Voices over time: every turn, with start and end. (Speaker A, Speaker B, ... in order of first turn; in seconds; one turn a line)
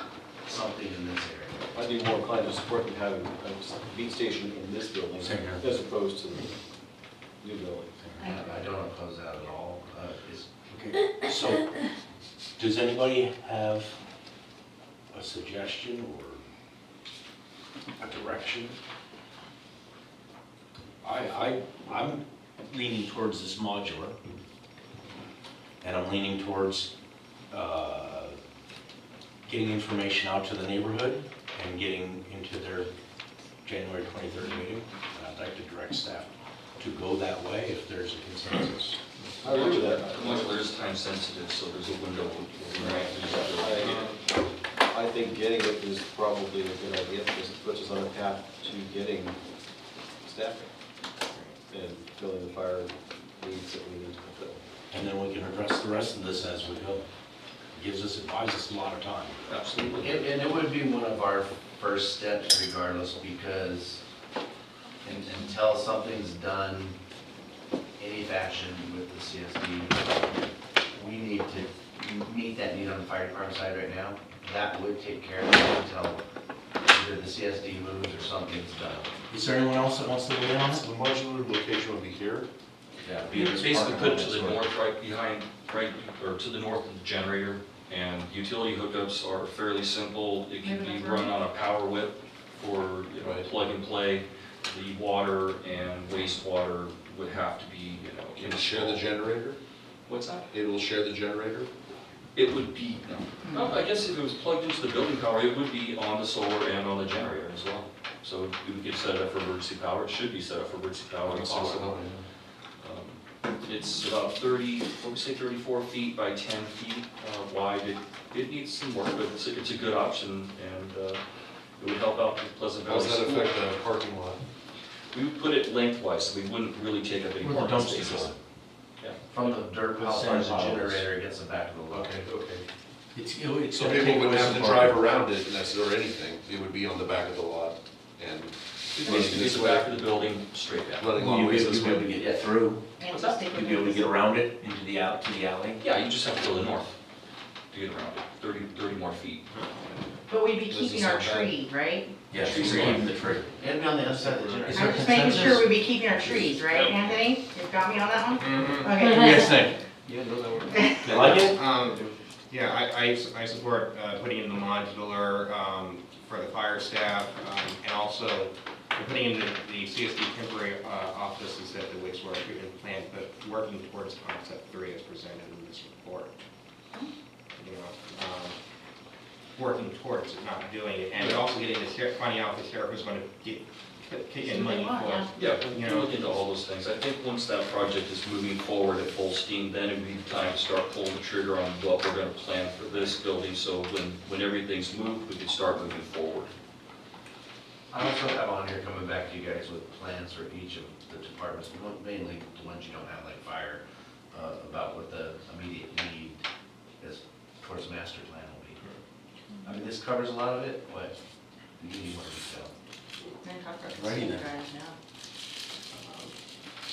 Speaker A: 0.5-1.7
Speaker B: 1.8-6.6
Speaker C: 5.2-5.7
Speaker B: 7.4-8.2
Speaker A: 8.2-10.5
Speaker C: 10.7-11.8
Speaker C: 12.6-13.9
Speaker C: 15.1-16.4
Speaker C: 18.0-18.8
Speaker C: 21.0-24.2
Speaker C: 25.8-26.9
Speaker C: 27.5-28.4
Speaker C: 29.5-32.9
Speaker C: 33.6-39.0
Speaker B: 39.4-40.7
Speaker D: 39.4-44.0
Speaker B: 42.8-49.4
Speaker E: 43.8-44.2
Speaker B: 50.2-50.7
Speaker E: 51.3-51.6
Speaker B: 51.7-54.6
Speaker C: 54.9-57.1
Speaker C: 57.7-59.5
Speaker D: 59.5-60.2
Speaker A: 60.0-64.0
Speaker A: 65.0-67.0
Speaker A: 68.0-70.3
Speaker A: 70.9-76.2
Speaker A: 76.9-79.1
Speaker C: 79.3-80.8
Speaker F: 80.7-82.5
Speaker A: 83.0-84.6
Speaker D: 83.3-99.1
Speaker G: 90.6-91.3
Speaker F: 93.2-93.5
Speaker F: 98.4-99.6
Speaker D: 100.1-100.5
Speaker F: 100.5-101.7
Speaker D: 102.3-112.0
Speaker F: 111.2-112.2
Speaker D: 112.8-121.2
Speaker D: 121.8-123.5
Speaker F: 122.8-124.4
Speaker D: 125.1-128.3
Speaker C: 127.4-128.3
Speaker A: 129.3-132.2
Speaker C: 129.9-131.1
Speaker F: 131.9-132.6
Speaker C: 133.2-135.0
Speaker F: 133.8-139.9
Speaker D: 138.9-141.1
Speaker F: 141.0-142.2
Speaker C: 141.2-142.8
Speaker A: 142.2-142.5
Speaker G: 143.0-144.2
Speaker D: 143.1-143.4
Speaker C: 143.5-145.8
Speaker D: 145.8-146.9
Speaker D: 147.7-149.5
Speaker G: 150.3-152.2
Speaker F: 150.7-151.6
Speaker C: 152.3-153.5
Speaker D: 152.3-153.1
Speaker F: 152.5-153.0
Speaker A: 153.6-155.4
Speaker C: 154.6-155.7
Speaker G: 154.7-159.4
Speaker D: 156.7-157.2
Speaker E: 158.4-159.1
Speaker C: 159.0-159.8
Speaker B: 160.1-162.2
Speaker C: 161.1-161.6
Speaker E: 161.4-176.4
Speaker E: 177.6-178.6
Speaker E: 179.6-186.3
Speaker G: 184.4-185.3
Speaker D: 185.3-196.5
Speaker A: 197.9-206.4
Speaker A: 207.0-208.8
Speaker A: 209.6-211.2
Speaker A: 211.8-212.7
Speaker G: 213.4-215.0
Speaker C: 214.0-214.4
Speaker E: 215.9-216.3